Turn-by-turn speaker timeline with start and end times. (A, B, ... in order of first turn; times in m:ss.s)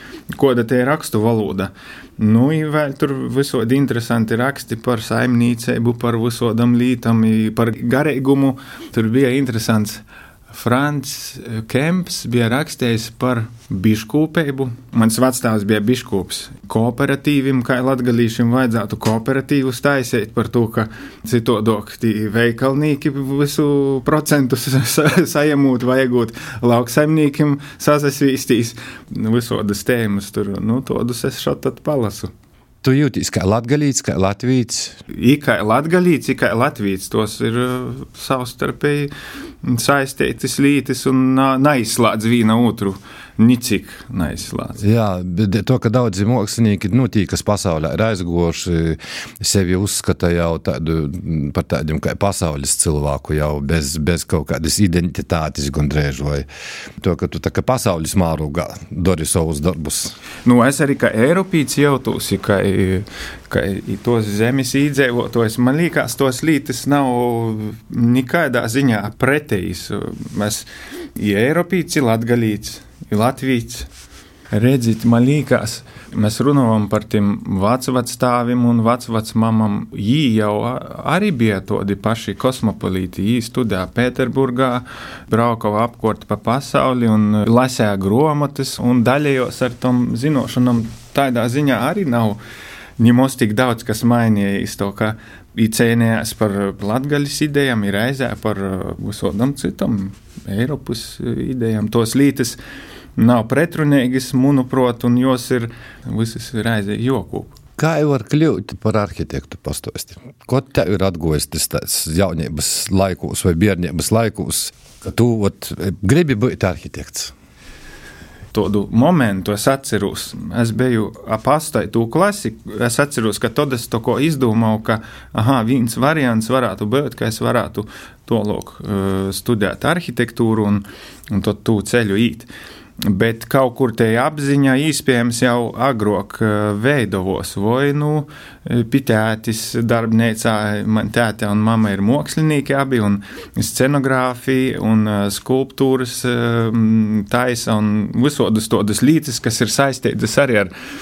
0:00.3-0:32.3 A
0:32.8-0:35.0 B
0:35.1-0:39.1 A
0:39.6-0:44.8 A
0:44.8-0:56.5 B
0:57.0-1:00.2 B
1:00.4-1:13.9 A
1:14.5-1:32.4 A
1:33.0-1:42.6 A
1:43.2-1:47.6 A
1:47.8-1:57.3 B
1:58.5-2:12.5 A
2:13.0-2:30.7 A